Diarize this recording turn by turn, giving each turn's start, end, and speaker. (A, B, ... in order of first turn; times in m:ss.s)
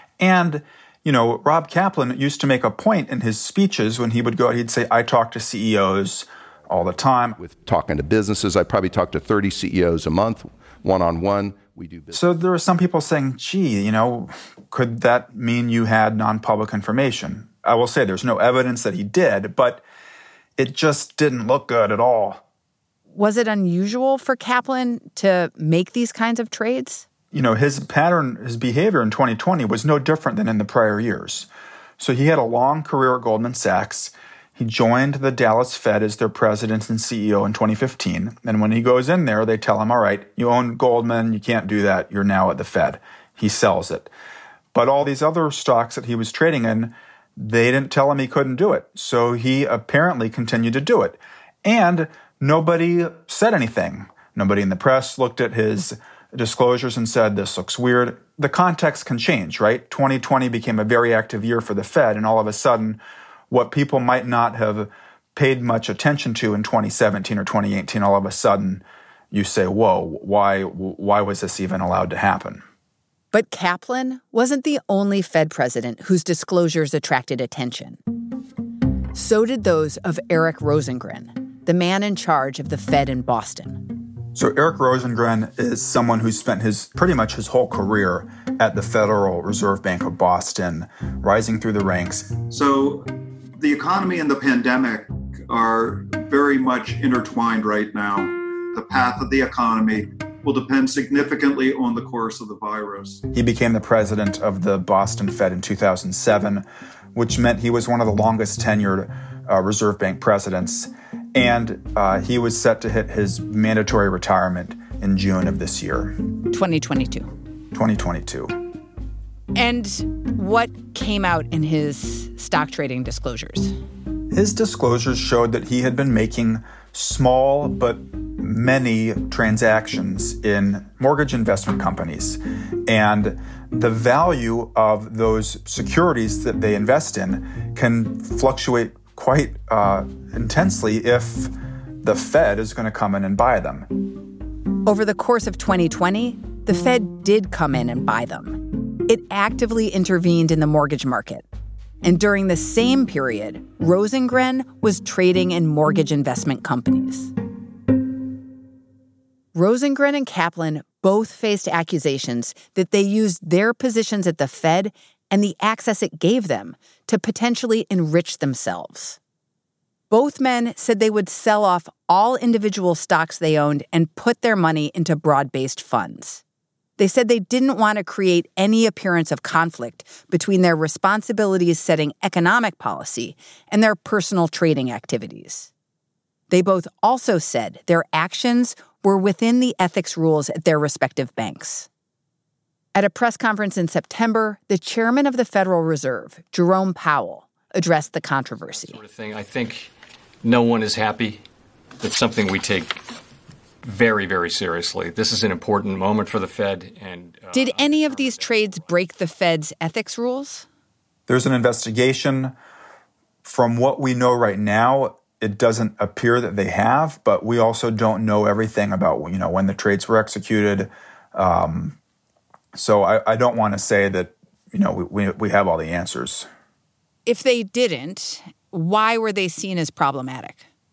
0:00.2-0:07.4 A
0:07.4-0:12.2 B
0:12.1-0:19.8 A
0:20.6-0:22.4 A
0:23.1-0:27.0 C
0:27.3-0:44.1 A
0:44.7-1:03.0 A
1:03.5-1:12.6 A
1:13.3-1:18.0 C
1:19.1-1:23.8 C
1:24.3-1:32.3 A
1:32.5-1:33.0 D
1:33.6-1:43.2 D
1:43.3-1:56.1 A
1:56.5-1:57.3 C
1:57.7-1:58.5 A
1:59.6-2:03.7 C
2:04.3-2:21.5 A
2:22.0-2:23.9 A
2:24.8-2:31.4 C
2:32.0-2:37.3 C
2:39.5-2:49.2 C
2:50.1-2:56.4 C
2:57.0-3:05.7 C
3:06.5-3:11.9 C
3:13.0-3:19.0 C
3:18.7-3:19.9 E
3:20.4-3:21.4 E
3:22.0-3:23.0 E
3:23.8-3:28.9 E
3:27.5-3:30.7 C
3:31.3-3:32.5 A
3:33.4-3:42.0 A
3:42.7-3:46.5 A
3:47.2-3:50.6 C